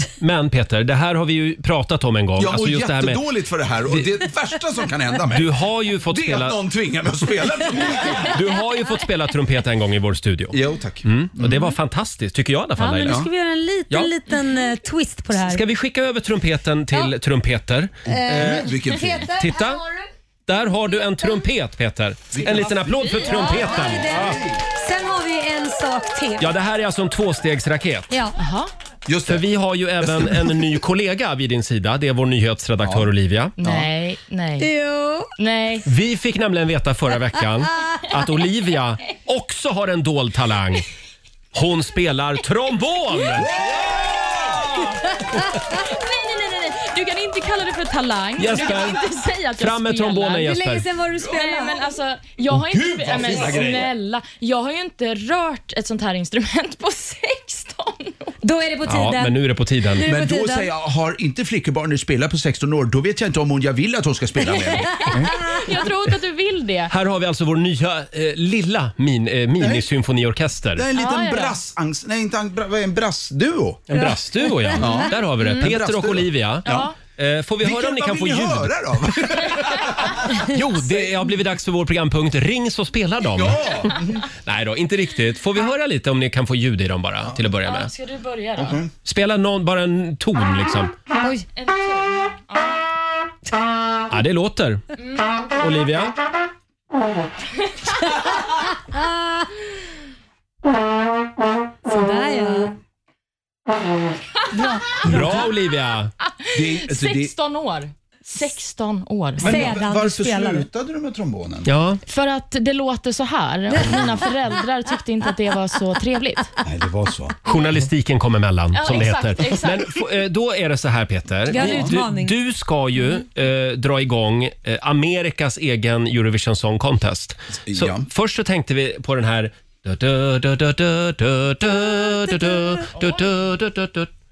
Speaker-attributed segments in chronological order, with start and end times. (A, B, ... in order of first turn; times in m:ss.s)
0:00.2-0:03.2 A
0:02.4-0:08.4 B
0:03.9-0:04.1 A
0:05.3-0:06.6 A
0:08.2-0:13.2 A
0:10.5-0:11.7 B
0:12.8-0:15.6 C
0:13.0-0:13.3 B
0:15.3-0:18.7 A
0:18.0-0:19.3 B
0:18.1-0:20.0 C
0:19.2-0:19.8 A
0:20.5-0:24.4 A
0:22.3-0:24.6 B
0:23.2-0:26.5 C
0:26.4-0:28.1 A
0:28.4-0:28.7 D
0:29.0-0:29.4 B
0:29.3-0:33.5 A
0:30.0-0:30.7 B
0:32.8-0:33.9 B
0:33.6-0:34.7 D
0:34.6-0:35.3 C
0:35.4-0:35.8 D
0:35.8-0:40.9 A
0:41.5-0:43.5 A
0:43.3-0:44.7 B
0:44.6-0:44.9 D
0:45.8-0:50.6 D
0:48.4-0:49.0 A
0:49.6-0:50.9 A
0:50.4-0:51.9 C
0:51.2-0:58.4 D
0:52.5-0:53.9 B
0:53.1-0:53.9 A
0:58.4-1:00.7 C
0:58.8-1:00.1 A
1:00.0-1:05.3 B
1:04.9-1:06.9 D
1:06.9-1:10.8 A
1:09.6-1:09.9 B
1:10.7-1:14.0 B
1:10.9-1:11.6 D
1:13.9-1:18.7 A
1:13.9-1:14.9 C
1:14.7-1:16.9 B
1:16.6-1:17.0 D
1:17.6-1:21.1 B
1:19.2-1:27.9 A
1:23.4-1:24.3 B
1:27.6-1:28.8 D
1:28.6-1:28.9 B
1:29.0-1:30.9 A
1:31.2-1:31.4 C
1:31.5-1:32.9 D
1:34.1-1:34.8 A
1:35.0-1:35.3 D
1:35.6-1:36.1 A
1:38.9-1:39.4 C
1:41.9-1:42.7 C
1:44.5-1:45.4 C
1:45.0-1:46.1 A
1:46.4-1:49.6 D
1:46.5-1:47.3 B
1:49.4-1:51.7 B
1:49.4-1:50.6 C
1:51.6-1:52.0 A
1:52.1-1:56.5 D
1:53.7-1:54.1 C
1:56.6-1:57.4 B
1:57.4-2:14.1 A
1:58.7-1:59.9 D
2:01.5-2:02.3 C
2:01.6-2:01.9 B
2:07.7-2:08.1 B